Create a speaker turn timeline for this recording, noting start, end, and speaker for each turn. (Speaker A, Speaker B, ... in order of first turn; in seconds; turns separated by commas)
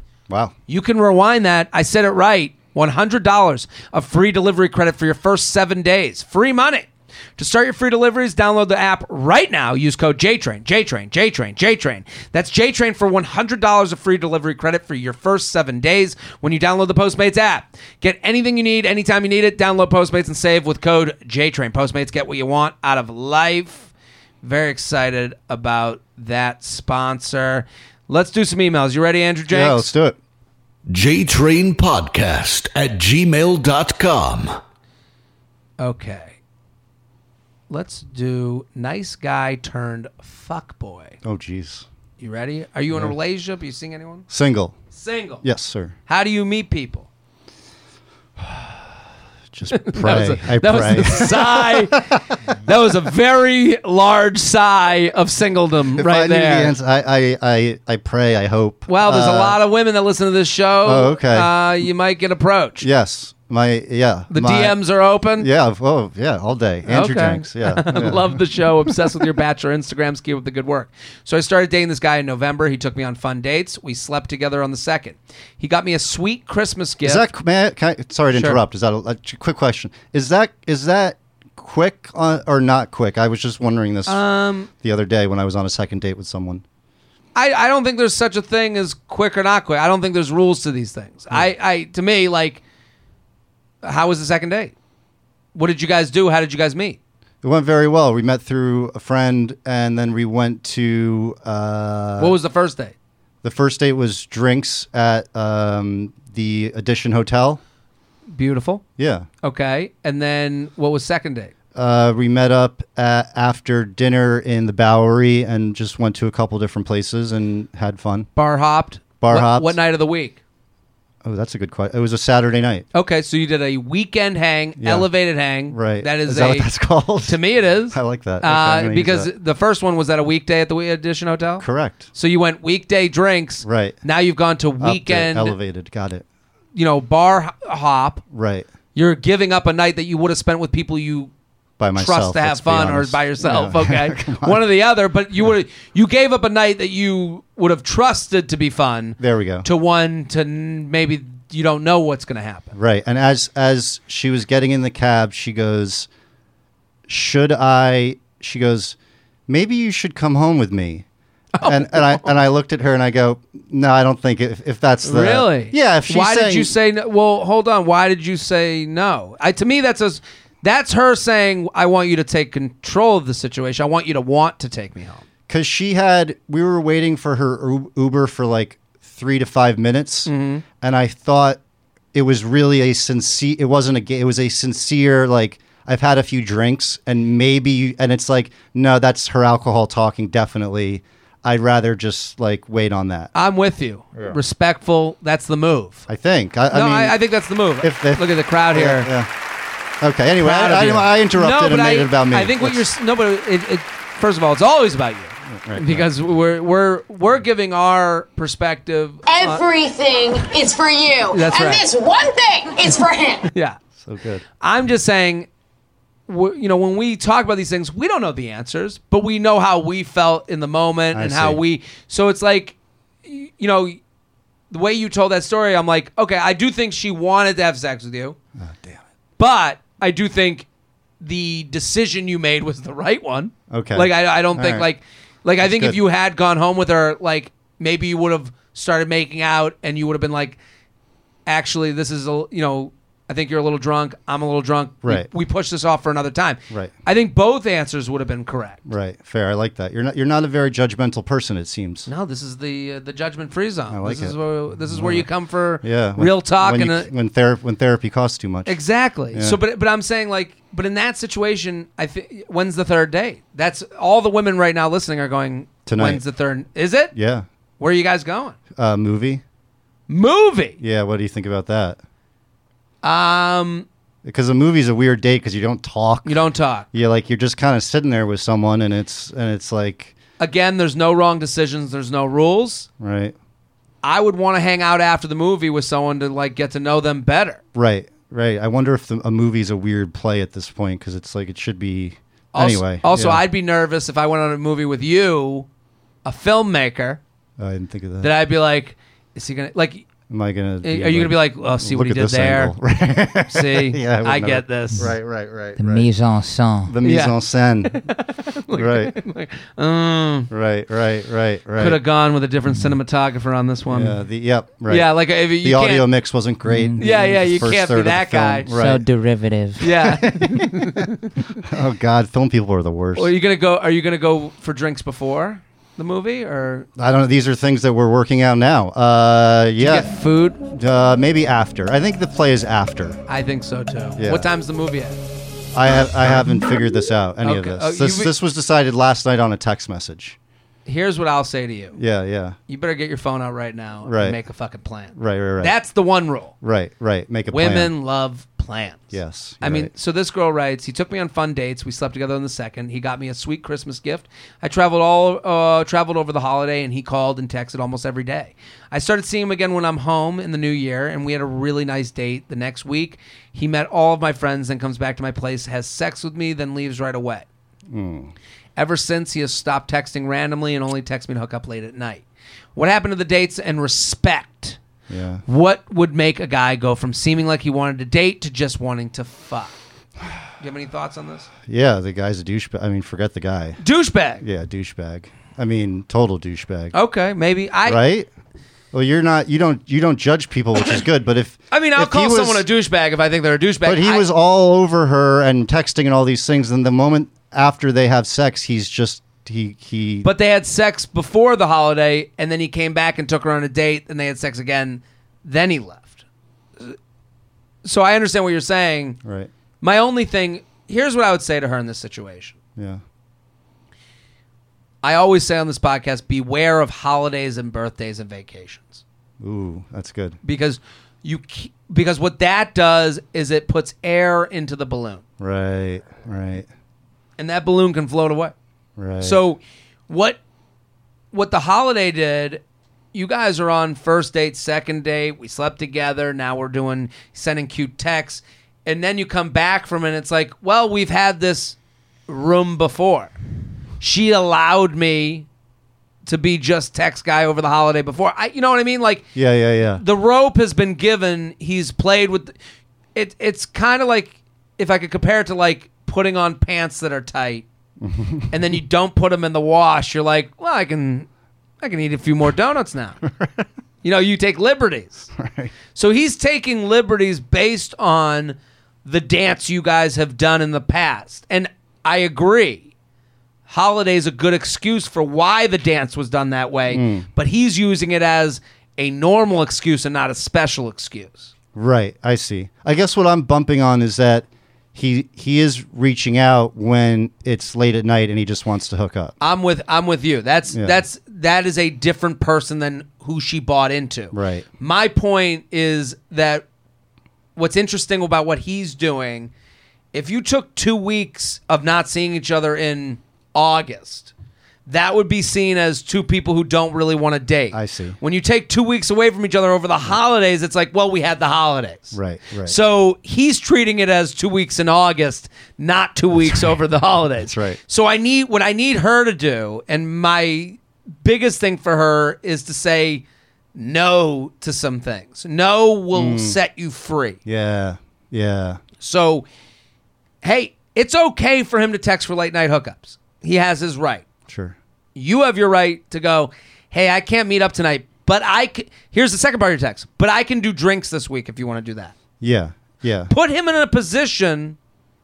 Speaker A: 0.3-0.5, Speaker B: 0.7-23.9, Speaker B: 24.4-29.9, Speaker A: 29.5-30.2, Speaker C: 30.9-34.6, Speaker B: 35.8-36.4, Speaker B: 37.7-41.2, Speaker A: 41.2-41.9, Speaker B: 42.2-44.3, Speaker A: 42.9-43.1, Speaker A: 44.3-44.7, Speaker B: 44.9-45.4, Speaker A: 45.4-45.9, Speaker B: 46.1-47.1, Speaker A: 49.5-52.4, Speaker B: 49.7-56.8, Speaker A: 56.0-59.6, Speaker B: 58.9-62.9, Speaker A: 60.8-61.5, Speaker A: 62.8-64.8, Speaker B: 64.3-65.5, Speaker A: 65.4-68.9, Speaker B: 66.9-77.3, Speaker A: 77.0-84.2, Speaker B: 78.3-78.6, Speaker B: 84.1-84.7, Speaker A: 84.8-86.6, Speaker B: 87.3-92.6, Speaker B: 93.8-94.7, Speaker B: 95.5-97.0, Speaker A: 97.4-102.3, Speaker B: 102.2-102.9, Speaker A: 103.4-107.6, Speaker B: 108.3-108.8, Speaker A: 109.0-109.3, Speaker B: 109.4-111.5, Speaker A: 111.7-118.3, Speaker B: 118.3-120.4, Speaker A: 119.2-119.8, Speaker A: 121.2-122.8, Speaker B: 122.9-126.7, Speaker A: 124.8-125.1, Speaker A: 125.7-129.3, Speaker B: 127.2-135.6, Speaker A: 131.6-132.1, Speaker A: 133.6-134.0, Speaker A: 134.8-136.2, Speaker B: 136.7-138.2, Speaker A: 138.3-138.7, Speaker B: 138.9-141.3, Speaker A: 141.8-144.6, Speaker B: 141.9-152.7, Speaker A: 149.2-149.7, Speaker A: 152.7-156.1, Speaker A: 157.1-158.9, Speaker A: 159.5-161.0, Speaker B: 161.5-162.3, Speaker A: 161.6-166.7, Speaker B: 165.0-175.2, Speaker A: 175.5-181.6, Speaker B: 180.2-180.6, Speaker A: 182.1-193.3, Speaker B: 193.3-196.0, Speaker A: 196.1-197.2, Speaker B: 196.7-199.1, Speaker A: 197.8-199.3, Speaker A: 200.0-202.9, Speaker B: 200.4-209.6, Speaker A: 205.5-206.1, Speaker D: 209.2-213.5, Speaker B: 211.3-211.8, Speaker B: 213.5-213.8, Speaker A: 214.0-214.4, Speaker B: 214.6-215.5, Speaker B: 216.3-224.0, Speaker A: 221.1-221.6, Speaker B: 224.7-228.4, Speaker A: 228.6-229.0, Speaker B: 229.4-230.7, Speaker B: 231.2-240.6, Speaker A: 233.7-234.9, Speaker A: 235.6-236.0, Speaker B: 241.4-248.8, Speaker A: 245.0-245.3, Speaker A: 248.8-252.1, Speaker B: 252.1-257.1, Speaker A: 253.9-255.3, Speaker A: 255.8-258.8, Speaker B: 258.6-267.1, Speaker A: 259.3-259.6, Speaker A: 265.9-266.2, Speaker A: 267.1-267.4, Speaker B: 267.8-268.6, Speaker A: 268.7-269.4, Speaker B: 270.1-270.8, Speaker A: 270.8-272.0, Speaker B: 273.0-273.9, Speaker A: 274.2-280.1, Speaker B: 276.2-276.9, Speaker B: 280.4-282.9, Speaker A: 283.0-283.3, Speaker B: 284.0-287.6, Speaker A: 287.7-293.4, Speaker B: 292.5-295.7, Speaker B: 296.2-297.2, Speaker A: 297.6-298.3, Speaker B: 298.2-300.1, Speaker A: 300.3-306.1, Speaker B: 300.8-302.8, Speaker B: 303.5-305.1, Speaker E: 305.8-306.9, Speaker A: 306.9-308.1, Speaker B: 307.0-310.5, Speaker A: 308.7-309.1, Speaker A: 310.5-312.0, Speaker B: 311.8-314.2, Speaker A: 313.9-319.0, Speaker B: 314.9-316.1, Speaker E: 316.6-317.6, Speaker B: 317.0-318.7, Speaker E: 318.7-320.3, Speaker B: 319.8-321.3, Speaker A: 320.2-321.0, Speaker A: 321.6-323.3, Speaker B: 323.1-326.9, Speaker A: 326.9-330.1, Speaker B: 329.8-330.6, Speaker A: 330.7-333.2, Speaker B: 333.3-335.2, Speaker A: 334.2-334.5, Speaker A: 335.7-340.4, Speaker B: 337.4-338.3, Speaker B: 340.9-342.0, Speaker A: 341.9-342.6, Speaker B: 342.7-346.5, Speaker A: 344.0-344.4, Speaker A: 345.1-345.7, Speaker A: 346.6-347.9, Speaker B: 347.5-367.4, Speaker A: 349.1-349.9, Speaker A: 367.9-368.3, Speaker B: 368.8-372.2, Speaker B: 372.8-374.8, Speaker A: 375.1-375.4, Speaker B: 375.4-379.8, Speaker B: 380.6-381.5, Speaker A: 381.6-383.8, Speaker B: 383.8-384.4, Speaker A: 384.4-386.9, Speaker B: 386.9-388.0, Speaker A: 387.9-388.3, Speaker A: 388.9-392.6, Speaker B: 391.7-394.2, Speaker A: 393.8-400.3, Speaker B: 400.2-406.2, Speaker B: 407.8-409.2, Speaker A: 409.2-409.5, Speaker B: 409.8-412.5, Speaker B: 415.0-419.0, Speaker A: 419.4-420.4, Speaker B: 420.4-425.2, Speaker A: 425.4-426.7, Speaker B: 427.4-428.5, Speaker A: 429.0-429.4, Speaker B: 429.2-430.4, Speaker B: 431.3-432.6, Speaker B: 433.1-441.8, Speaker B: 442.3-443.3, Speaker B: 444.0-445.4, Speaker B: 446.2-449.3, Speaker A: 449.3-450.0, Speaker B: 449.9-452.5, Speaker B: 453.1-457.6, Speaker A: 458.0-458.5, Speaker B: 458.5-461.3, Speaker B: 461.8-463.2, Speaker A: 463.2-463.6, Speaker B: 464.0-465.3, Speaker A: 465.4-465.7, Speaker B: 465.9-472.9, Speaker B: 473.7-481.5, Speaker A: 476.9-477.2, Speaker A: 481.7-489.3, Speaker B: 489.4-496.6, Speaker A: 490.7-491.0, Speaker A: 494.3-494.6, Speaker B: 497.5-499.5, Speaker B: 500.1-504.3, Speaker B: 504.9-523.2, Speaker A: 507.7-508.2, Speaker A: 512.1-512.8, Speaker A: 516.4-516.7, Speaker A: 517.4-517.8, Speaker B: 523.7-527.4, Speaker A: 526.1-526.6, Speaker A: 527.5-528.8, Speaker B: 529.0-529.4, Speaker B: 530.4-534.2, Speaker A: 534.5-534.8, Speaker B: 535.1-542.1, Speaker A: 542.4-543.3, Speaker B: 543.3-544.8